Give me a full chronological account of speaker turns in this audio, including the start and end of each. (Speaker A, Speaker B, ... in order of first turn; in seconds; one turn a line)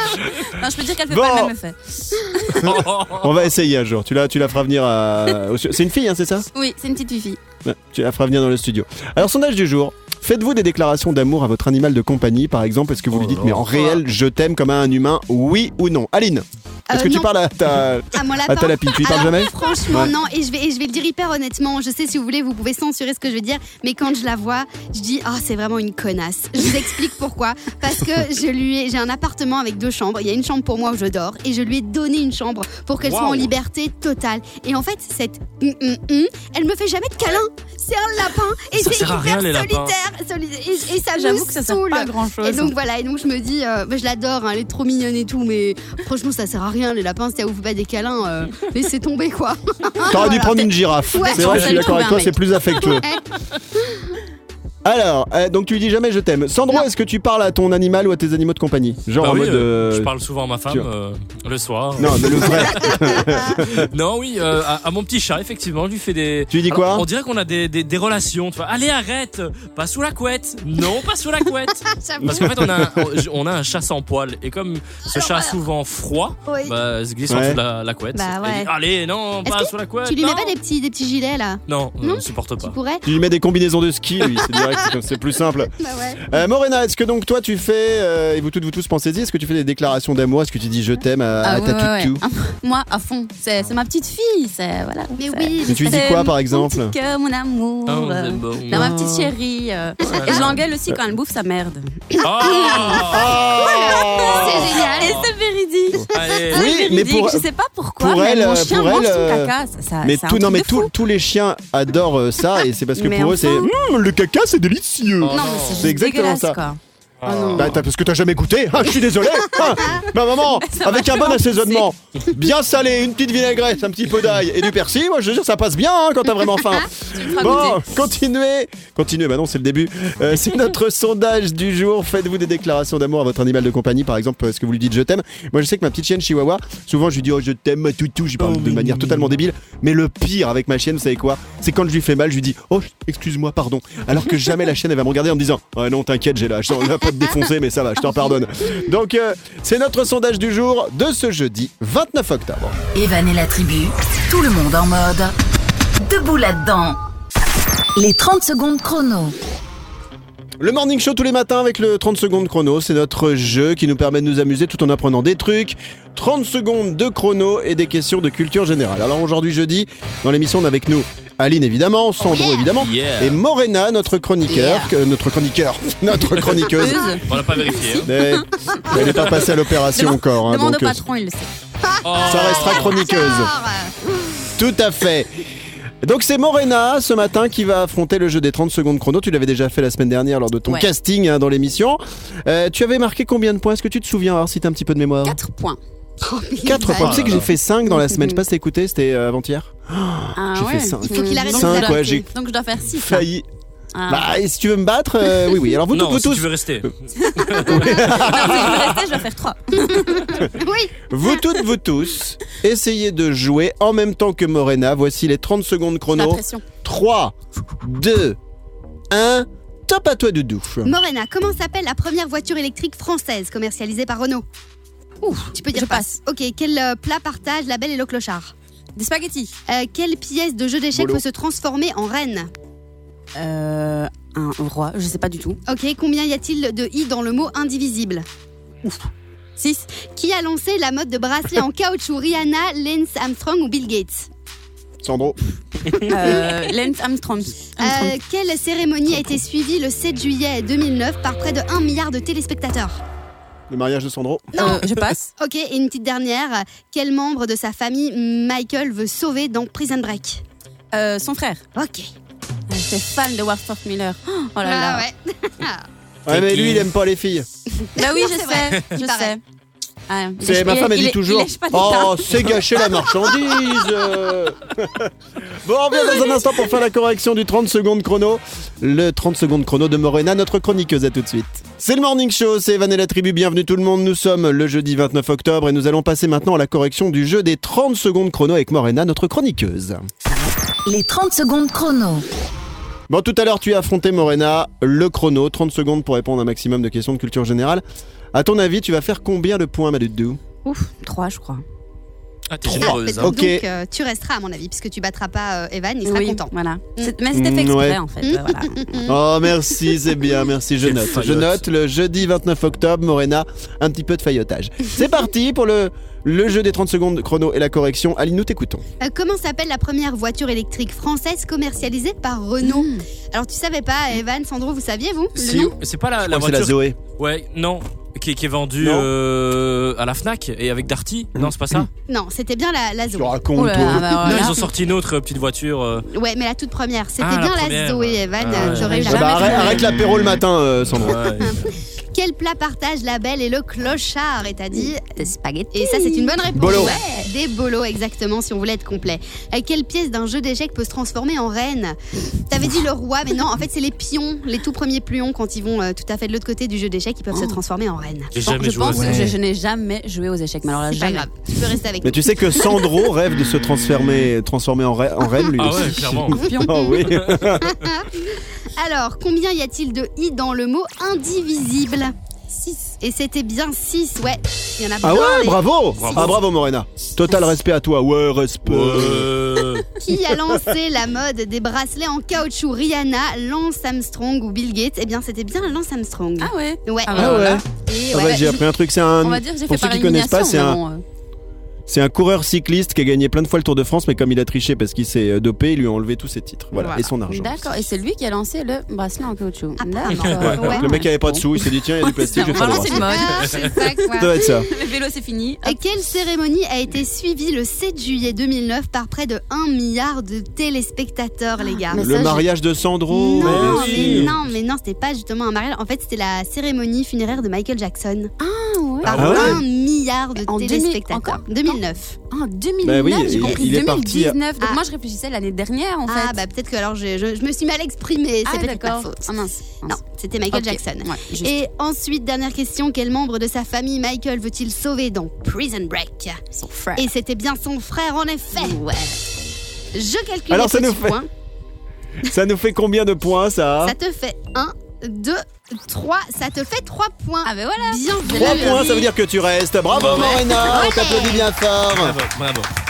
Speaker A: 0.2-2.7
Speaker B: 1.1-1.5
Speaker B: 2.5-6.5
Speaker C: 2.5-3.3
Speaker A: 6.5-7.4
Speaker B: 7.6-20.1
Speaker C: 13.1-14.0
Speaker D: 16.9-17.3
Speaker D: 18.1-52.1
Speaker C: 33.0-33.5
Speaker C: 38.7-40.0
Speaker A: 41.1-42.8
Speaker B: 50.1-53.1
Speaker A: 51.1-52.4
Speaker D: 52.8-54.1
Speaker B: 54.8-60.1
Speaker C: 59.2-80.5
Speaker B: 62.0-63.9
Speaker B: 66.5-67.1
Speaker D: 71.9-72.5
Speaker B: 72.3-73.1
Speaker D: 75.1-75.5
Speaker D: 76.5-76.8
Speaker B: 77.3-77.6
Speaker D: 78.1-78.7
Speaker D: 79.5-83.0
Speaker C: 81.7-82.8
Speaker B: 83.0-85.7
Speaker D: 85.7-86.4
Speaker B: 86.3-92.2
Speaker A: 91.4-101.9
Speaker D: 95.2-96.2
Speaker B: 95.6-97.0
Speaker C: 97.9-98.9
Speaker D: 100.0-100.4
Speaker C: 100.0-100.6
Speaker D: 102.1-105.2
Speaker C: 102.2-103.4
Speaker B: 103.0-104.8
Speaker A: 103.6-110.9
Speaker C: 104.1-105.3
Speaker B: 106.0-107.5
Speaker C: 106.1-106.7
Speaker B: 108.0-116.6
Speaker A: 113.0-113.7
Speaker C: 115.2-115.9
Speaker A: 115.3-117.7
Speaker C: 117.2-117.8
Speaker B: 117.5-152.8
Speaker A: 120.6-121.9
Speaker A: 127.0-127.8
Speaker C: 138.4-139.3
Speaker E: 152.9-155.3
Speaker E: 156.0-157.0
Speaker E: 158.0-159.3
Speaker B: 160.6-177.1
Speaker D: 172.2-172.7
Speaker C: 172.8-173.4
Speaker A: 174.5-174.9
Speaker A: 176.7-178.4
Speaker C: 177.3-178.1
Speaker B: 178.0-181.0
Speaker A: 179.9-181.5
Speaker D: 181.8-184.5
Speaker C: 182.0-183.0
Speaker B: 182.2-183.5
Speaker B: 184.6-185.4
Speaker B: 186.0-195.4
Speaker A: 195.2-195.8
Speaker D: 196.2-197.4
Speaker B: 196.6-202.3
Speaker C: 196.8-197.5
Speaker A: 198.0-198.3
Speaker A: 200.4-203.3
Speaker D: 201.0-202.3
Speaker B: 202.9-203.5
Speaker A: 203.9-204.4
Speaker B: 204.1-206.9
Speaker C: 205.9-207.8
Speaker A: 207.4-210.4
Speaker B: 207.5-209.0
Speaker D: 209.8-211.4
Speaker B: 211.1-218.4
Speaker A: 216.1-216.7
Speaker B: 219.1-221.0
Speaker D: 220.8-224.4
Speaker A: 225.2-226.2
Speaker D: 225.5-228.5
Speaker A: 229.0-229.5
Speaker D: 229.7-232.5
Speaker B: 230.9-231.2
Speaker A: 233.3-235.6
Speaker D: 235.7-238.3
Speaker A: 239.6-239.9
Speaker D: 240.0-244.3
Speaker B: 245.0-245.4
Speaker D: 245.9-246.5
Speaker A: 246.1-248.2
Speaker D: 247.8-253.0
Speaker B: 253.7-254.5
Speaker D: 254.5-254.9
Speaker A: 254.6-255.3
Speaker D: 255.4-260.4
Speaker A: 260.9-261.6
Speaker D: 261.8-262.1
Speaker A: 262.7-265.1
Speaker D: 264.6-265.9
Speaker B: 266.3-267.5
Speaker C: 266.3-266.9
Speaker A: 267.9-269.4
Speaker D: 268.0-269.4
Speaker A: 270.1-272.6
Speaker B: 270.4-290.1
Speaker E: 290.9-292.3
Speaker B: 293.1-297.8
Speaker B: 298.3-300.4
Speaker A: 300.6-301.6
Speaker C: 302.5-303.4
Speaker B: 302.7-303.7
Speaker D: 302.7-307.1
Speaker A: 306.1-309.0
Speaker B: 307.3-308.0
Speaker D: 308.2-310.1
Speaker B: 309.1-318.8
Speaker C: 310.8-311.6
Speaker D: 319.0-325.8
Speaker A: 322.6-323.0
Speaker B: 325.4-327.0
Speaker C: 325.8-331.9
Speaker B: 328.8-329.1
Speaker B: 331.4-331.9
Speaker D: 332.1-333.4
Speaker B: 333.1-334.4
Speaker A: 333.6-334.6
Speaker D: 333.9-334.5
Speaker C: 334.2-336.1
Speaker D: 336.1-339.8
Speaker C: 337.2-339.8
Speaker A: 338.6-339.9
Speaker B: 338.9-341.2
Speaker C: 340.9-341.7
Speaker D: 341.2-358.3
Speaker A: 344.7-347.3
Speaker B: 346.5-347.0
Speaker A: 357.3-357.6
Speaker C: 358.3-359.2
Speaker A: 358.4-361.3
Speaker B: 358.9-359.4
Speaker D: 360.6-363.0
Speaker B: 362.0-368.0
Speaker C: 365.6-366.4
Speaker A: 366.3-367.1
Speaker C: 367.0-367.4
Speaker D: 367.6-372.1
Speaker A: 372.5-372.9
Speaker D: 373.0-375.6
Speaker B: 375.0-379.3
Speaker C: 375.9-376.4
Speaker C: 378.6-379.9
Speaker D: 380.0-388.6
Speaker A: 386.4-388.6
Speaker B: 387.1-390.8
Speaker A: 389.2-391.0
Speaker B: 391.9-397.9
Speaker A: 396.8-404.1
Speaker D: 399.8-400.9
Speaker C: 400.2-400.6
Speaker B: 400.4-403.3
Speaker D: 402.5-404.7
Speaker B: 404.2-404.7
Speaker A: 404.7-405.8
Speaker D: 405.6-412.1
Speaker A: 411.9-412.5
Speaker B: 411.9-414.4
Speaker D: 413.1-418.3
Speaker C: 413.4-414.4
Speaker A: 418.4-419.6
Speaker D: 419.0-422.2
Speaker C: 419.0-419.6
Speaker B: 419.1-419.6
Speaker A: 420.5-426.4
Speaker B: 422.8-424.4
Speaker D: 423.3-423.7
Speaker D: 426.1-429.3
Speaker A: 428.4-430.0
Speaker D: 429.9-436.4
Speaker A: 430.5-431.6
Speaker A: 436.6-437.1
Speaker D: 437.0-438.8
Speaker A: 438.6-439.2
Speaker D: 439.9-441.3
Speaker B: 440.5-441.2
Speaker B: 442.2-444.0
Speaker D: 443.8-449.1
Speaker A: 447.4-449.1
Speaker B: 448.3-452.2
Speaker C: 449.9-450.8
Speaker D: 450.1-451.5
Speaker C: 451.9-452.7